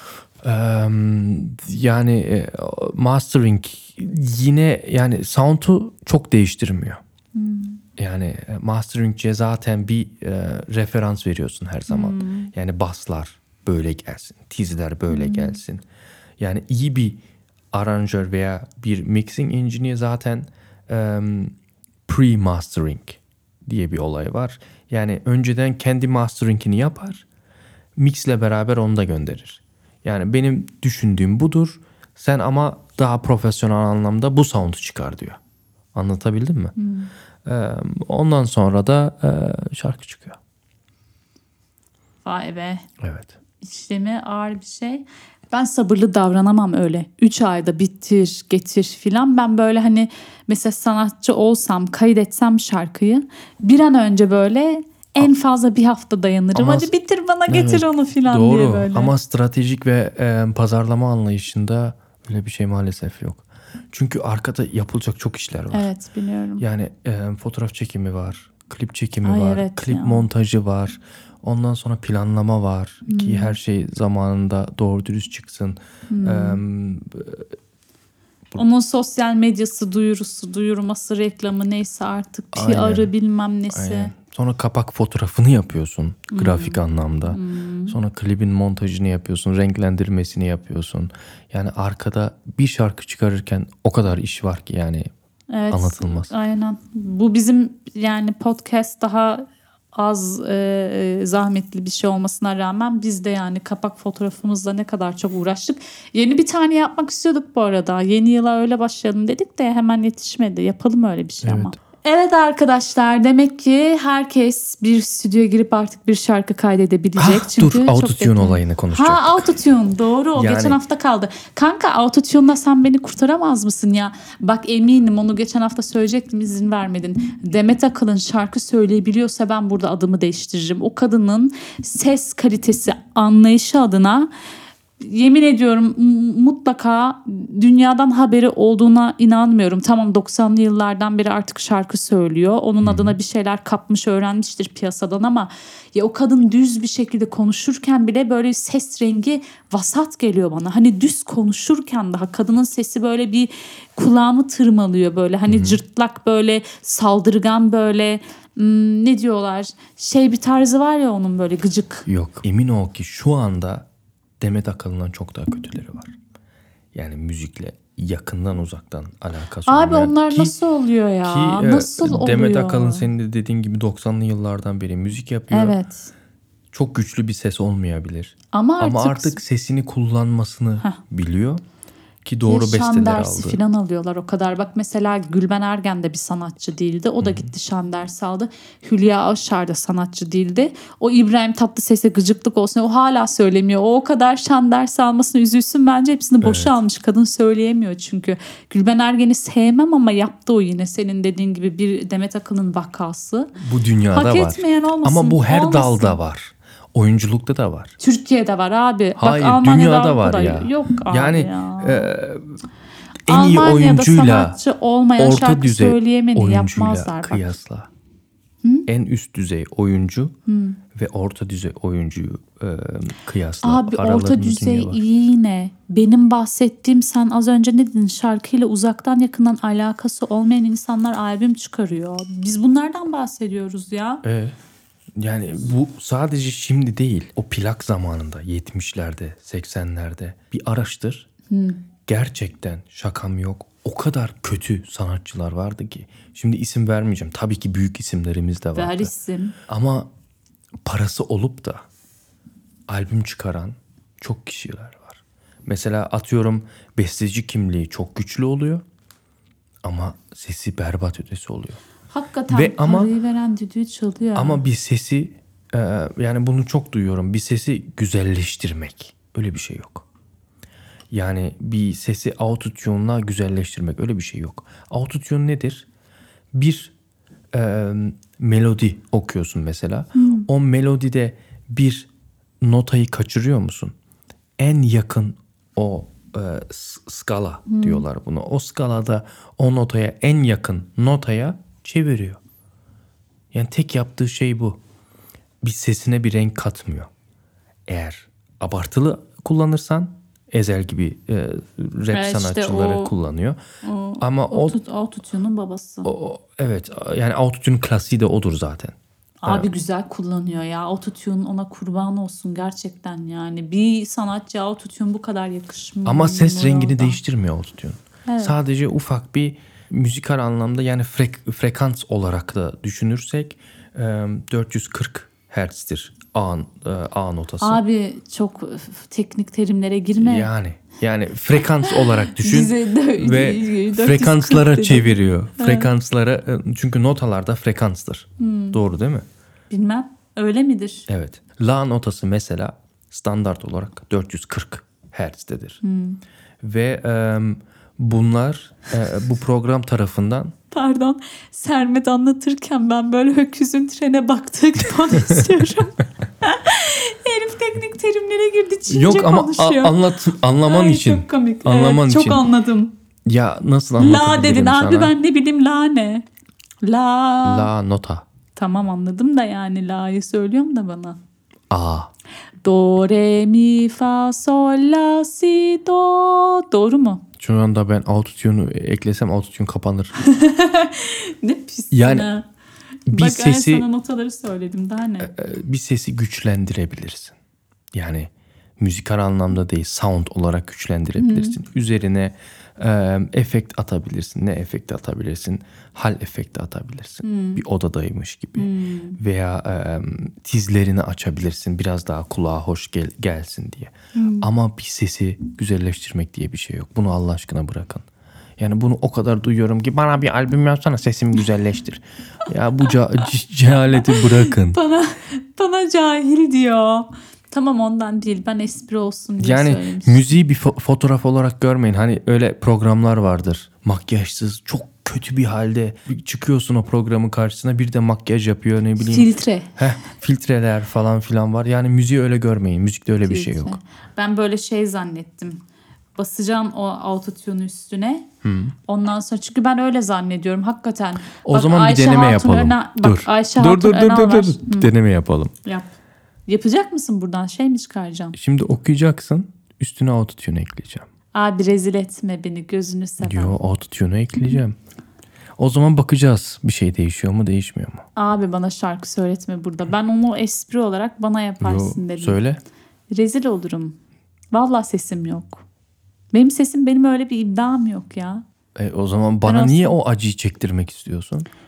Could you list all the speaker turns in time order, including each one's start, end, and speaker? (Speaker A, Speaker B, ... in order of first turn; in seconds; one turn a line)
Speaker A: 0.4-7.0
Speaker B: 7.3-7.8
Speaker A: 8.0-15.8
Speaker B: 11.9-12.5
Speaker B: 15.1-15.6
Speaker A: 16.4-17.2
Speaker A: 17.7-21.5
Speaker A: 22.1-27.2
Speaker A: 27.9-35.4
Speaker A: 35.9-36.7
Speaker B: 36.8-37.1
Speaker A: 37.4-40.4
Speaker B: 42.2-42.9
Speaker A: 43.0-43.4
Speaker B: 43.6-59.1
Speaker A: 56.5-56.9
Speaker A: 57.5-65.9
Speaker B: 65.7-66.6
Speaker A: 66.6-77.5
Speaker B: 69.2-70.3
Speaker B: 73.0-73.6
Speaker B: 76.1-76.6
Speaker B: 78.5-84.1
Speaker A: 82.5-83.1
Speaker A: 83.7-95.1
Speaker B: 86.3-88.0
Speaker B: 95.5-134.3
Speaker A: 95.7-96.3
Speaker A: 111.4-111.7
Speaker A: 117.2-119.5
Speaker A: 120.3-120.8
Speaker B: 135.0-162.1
Speaker A: 142.8-143.2
Speaker A: 155.5-155.8
Speaker A: 162.1-163.9
Speaker A: 164.4-166.2
Speaker A: 166.9-170.5
Speaker B: 169.7-173.1
Speaker A: 171.2-175.8
Speaker B: 175.5-176.1
Speaker A: 176.7-181.6
Speaker B: 178.5-179.4
Speaker A: 182.2-183.6
Speaker B: 182.4-203.5
Speaker A: 187.2-187.5
Speaker A: 196.4-196.7
Speaker A: 203.6-208.0
Speaker B: 204.1-206.2
Speaker B: 208.0-212.1
Speaker A: 209.2-212.5
Speaker A: 213.3-214.6
Speaker B: 213.3-217.5
Speaker A: 215.2-217.9
Speaker B: 218.6-218.9
Speaker A: 218.9-220.3
Speaker B: 220.5-220.8
Speaker A: 220.9-225.0
Speaker B: 223.6-234.2
Speaker A: 234.2-234.6
Speaker A: 235.2-241.3
Speaker B: 241.5-241.8
Speaker A: 242.1-249.1
Speaker B: 248.7-249.6
Speaker A: 249.7-250.1
Speaker A: 250.8-251.8
Speaker A: 252.9-258.8
Speaker A: 259.8-261.8
Speaker B: 262.1-264.6
Speaker A: 262.5-263.1
Speaker A: 264.3-270.1
Speaker A: 271.1-275.9
Speaker A: 276.5-276.9
Speaker A: 277.5-282.1
Speaker B: 280.1-280.5
Speaker A: 282.6-283.9
Speaker A: 284.6-292.4
Speaker B: 287.7-288.0
Speaker A: 293.5-294.8
Speaker A: 295.6-297.1
Speaker A: 297.9-303.6
Speaker B: 302.1-303.1
Speaker B: 303.8-306.1
Speaker A: 304.2-304.8
Speaker A: 306.0-308.9
Speaker B: 309.4-317.2
Speaker A: 316.0-327.8
Speaker B: 318.3-318.5
Speaker B: 327.6-330.5
Speaker A: 330.2-339.2
Speaker B: 331.9-335.9
Speaker B: 338.4-338.8
Speaker B: 339.7-341.1
Speaker A: 341.1-345.8
Speaker B: 345.8-346.2
Speaker A: 346.6-350.5
Speaker B: 350.7-360.0
Speaker A: 358.9-362.5
Speaker B: 360.6-362.9
Speaker A: 363.2-365.1
Speaker B: 364.0-366.2
Speaker B: 366.8-367.7
Speaker A: 367.4-368.2
Speaker B: 368.6-371.2
Speaker A: 371.7-372.1
Speaker B: 372.6-377.2
Speaker A: 377.4-380.1
Speaker B: 380.2-382.4
Speaker A: 381.9-382.3
Speaker B: 383.1-385.3
Speaker A: 383.1-383.9
Speaker A: 385.2-387.4
Speaker A: 387.9-408.1
Speaker B: 391.2-391.6
Speaker B: 397.2-397.6
Speaker B: 398.6-399.2
Speaker B: 404.1-404.5
Speaker A: 408.6-414.8
Speaker B: 413.7-420.2
Speaker A: 419.4-433.8
Speaker B: 429.0-429.8
Speaker B: 433.2-435.6
Speaker B: 436.1-438.3
Speaker A: 438.4-438.7
Speaker B: 438.9-444.9
Speaker A: 441.4-445.5
Speaker B: 446.5-448.4
Speaker A: 448.3-451.0
Speaker B: 451.3-453.6
Speaker A: 453.2-454.8
Speaker A: 455.6-458.0
Speaker B: 458.1-462.4
Speaker A: 461.6-462.6
Speaker B: 463.1-464.0
Speaker B: 464.5-465.6
Speaker B: 466.3-468.4
Speaker A: 468.8-471.5
Speaker B: 469.4-469.9